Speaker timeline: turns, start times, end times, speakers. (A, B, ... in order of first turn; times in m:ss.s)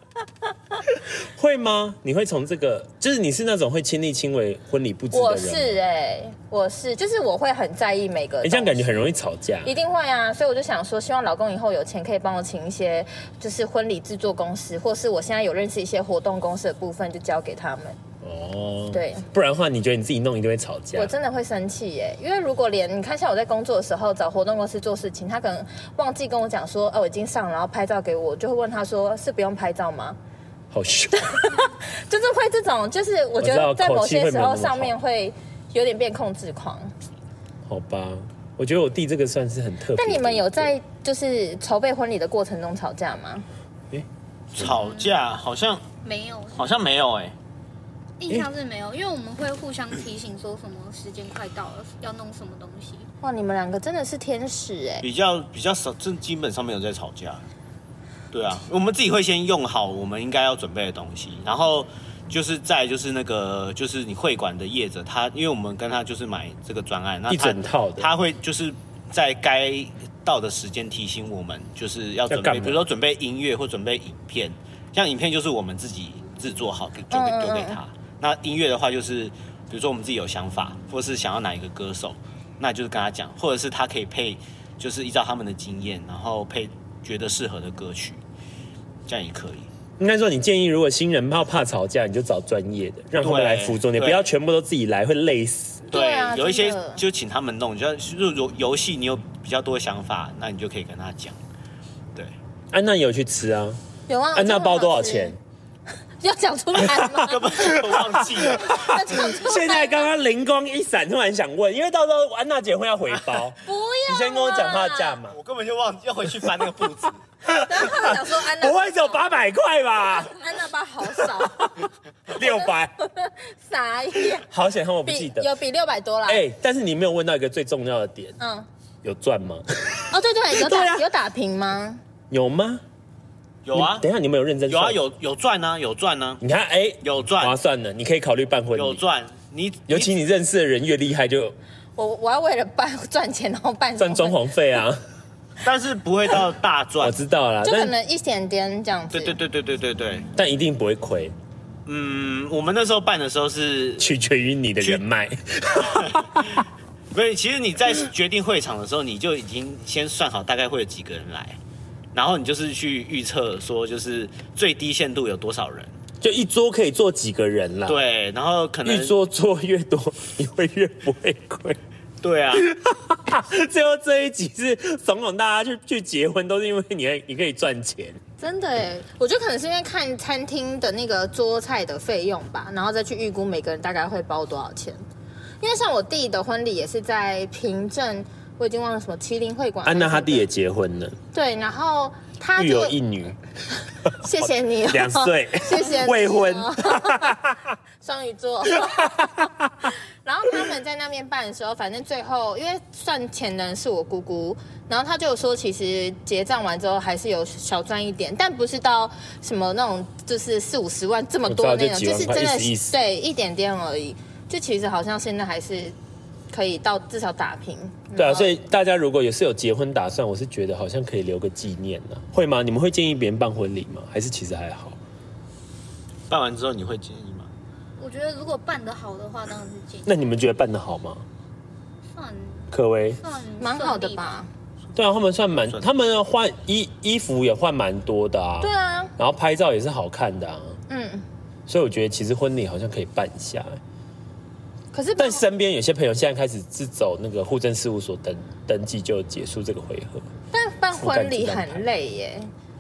0:00.9-0:05.8 A
0:05.1-0:09.1 B
0:08.4-0:09.7 A
0:09.6-0:18.0 B
0:18.2-0:21.1 A
0:18.9-0:19.2 B
0:21.0-0:30.2 B
0:30.7-0:31.4 A
0:31.2-0:36.9 B
0:33.4-0:35.0 A
0:37.6-0:40.7 A
0:40.0-0:43.4 B
0:44.5-0:45.9 C
0:44.6-0:45.1 D
0:46.0-0:46.7 D
0:46.5-0:47.4 C
0:48.2-0:53.1 D
0:53.2-0:55.0 B
0:55.0-0:57.4 C
0:58.3-1:28.2 C
1:07.3-1:08.1 A
1:12.3-1:12.8 A
1:17.1-1:17.8 B
1:29.0-1:29.7 C
1:30.0-1:35.9 A
1:33.2-1:34.3 C
1:35.9-1:37.0 B
1:35.9-1:41.4 C
1:42.7-1:43.8 A
1:44.1-1:45.4 B
1:44.3-1:45.4 A
1:46.2-1:47.5 B
1:46.8-1:55.4 A
1:47.3-1:49.0 C
1:48.7-1:50.0 B
1:53.6-1:55.2 B
1:55.3-1:57.2 C
1:56.4-1:56.6 A
1:57.5-2:00.4 A
1:57.6-1:59.2 B
2:00.2-2:01.8 B
2:01.1-2:02.9 A
2:02.3-2:04.4 B
2:04.4-2:05.5 A
2:05.0-2:06.4 B
2:06.2-2:08.4 A
2:08.4-2:08.7 B
2:09.0-2:11.0 A
2:10.1-2:12.0 B
2:12.3-2:12.8 A
2:13.6-2:14.0 C
2:13.7-2:15.0 A
2:14.7-2:16.4 C
2:16.4-2:19.0 A
2:17.0-2:17.6 C
2:18.7-2:20.1 C
2:19.9-2:21.5 A
2:22.0-2:24.4 B
2:24.0-2:25.0 A
2:25.6-2:27.2 C
2:27.0-2:27.9 A
2:27.6-2:29.4 B
2:29.1-2:30.3 C
2:30.4-2:31.3 A
2:31.8-2:34.1 C
2:34.0-2:36.6 A
2:36.0-2:41.6 C
2:42.1-2:45.9 C
2:46.2-2:48.0 A
2:47.9-2:49.1 C
2:48.8-2:51.8 A
2:52.2-2:52.7 C
2:52.5-2:58.2 A
2:58.4-3:05.0 B
3:05.6-3:10.5 B
3:09.8-3:11.2 A
3:11.3-3:12.9 B
3:12.6-3:13.4 A
3:14.0-3:17.6 A
3:14.2-3:17.4 B
3:18.0-3:19.3 B
3:18.8-3:19.7 A
3:20.2-3:35.9 B
3:31.5-3:32.9 A
3:36.5-3:38.6 B
3:38.2-3:45.0 A
3:46.3-3:47.5 C
3:48.0-3:50.2 D
3:50.0-3:51.2 A
3:52.1-3:54.4 D
3:52.7-3:53.2 A
3:53.6-3:54.5 B
3:55.0-4:00.8 A
3:58.6-3:59.1 B
4:00.9-4:01.2 B
4:01.7-4:03.8 A
4:04.9-4:05.4 B
4:05.2-4:10.3 A
4:10.5-4:12.5 B
4:11.0-4:11.8 A